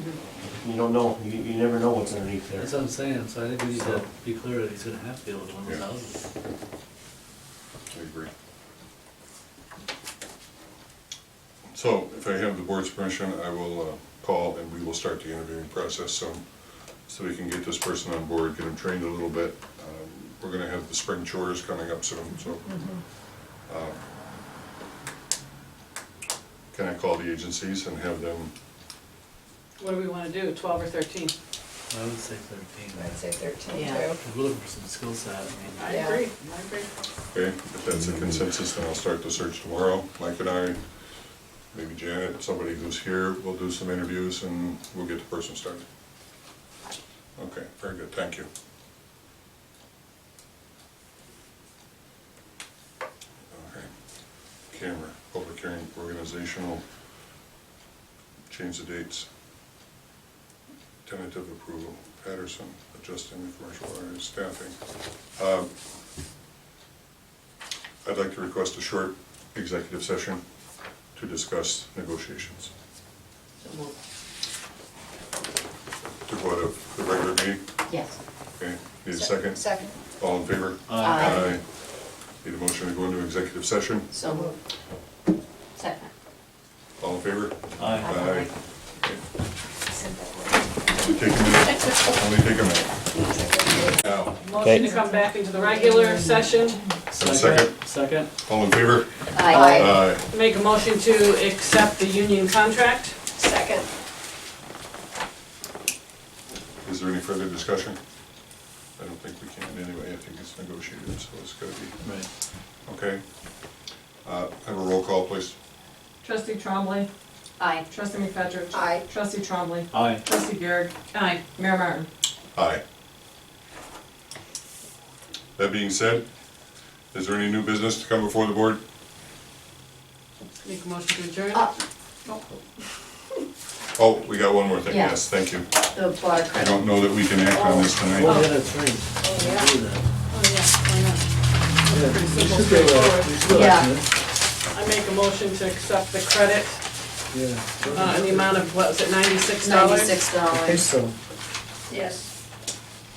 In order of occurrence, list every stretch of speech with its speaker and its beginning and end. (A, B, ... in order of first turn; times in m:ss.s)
0:00.4-0:02.7 A
0:02.6-0:06.2 B
0:03.8-0:04.0 A
0:07.9-0:08.3 C
0:11.7-0:16.4 C
0:17.1-0:22.7 C
0:23.6-0:24.0 C
0:26.7-0:28.5 C
0:29.8-0:31.3 D
0:31.9-0:33.2 B
0:32.9-0:34.2 E
0:33.7-0:34.0 F
0:34.2-0:36.0 B
0:35.8-0:36.9 D
0:35.9-0:36.2 E
0:37.3-0:40.8 C
0:41.7-0:45.8 C
0:47.4-0:48.5 C
0:53.5-0:53.9 C
0:54.7-0:56.8 C
0:58.5-0:59.3 C
1:01.0-1:04.8 C
1:05.3-1:05.7 C
1:08.0-1:10.4 C
1:11.1-1:12.7 C
1:13.6-1:13.9 F
1:16.2-1:17.6 C
1:17.9-1:18.2 F
1:18.6-1:19.6 C
1:19.1-1:20.0 E
1:20.2-1:21.6 C
1:20.9-1:21.5 B
1:21.0-1:21.5 F
1:22.4-1:24.1 C
1:24.1-1:24.5 F
1:24.2-1:24.5 E
1:25.8-1:26.1 F
1:27.0-1:29.2 C
1:27.8-1:28.2 B
1:28.0-1:28.5 F
1:31.0-1:32.9 C
1:33.1-1:34.0 E
1:34.0-1:34.4 C
1:34.4-1:36.8 D
1:34.7-1:35.3 G
1:37.1-1:38.3 B
1:37.1-1:37.7 C
1:38.4-1:40.2 C
1:39.3-1:40.0 F
1:39.5-1:40.0 E
1:40.3-1:43.2 D
1:43.4-1:43.8 E
1:46.8-1:48.0 C
1:49.0-1:52.0 C
1:52.0-1:52.3 B
1:52.8-1:53.2 C
1:54.2-1:55.6 C
1:56.2-1:57.1 G
1:57.6-1:57.8 F
1:57.9-2:02.1 G
1:58.7-1:59.1 E
1:59.9-2:00.2 B
2:02.5-2:02.8 C
2:05.6-2:06.2 C
2:07.1-2:08.8 C
2:10.6-2:12.6 D
2:14.0-2:15.7 C
2:14.9-2:15.2 F
2:15.8-2:16.9 F
2:16.5-2:18.4 C
2:17.4-2:18.5 D
2:18.0-2:20.0 B
2:19.2-2:19.7 E
2:20.3-2:21.3 D
2:21.8-2:23.5 D
2:21.9-2:24.1 B
2:23.5-2:23.9 F
2:24.7-2:26.8 D
2:27.3-2:28.4 B
2:27.9-2:30.2 D
2:29.6-2:30.8 F
2:30.5-2:31.1 B
2:31.9-2:32.3 E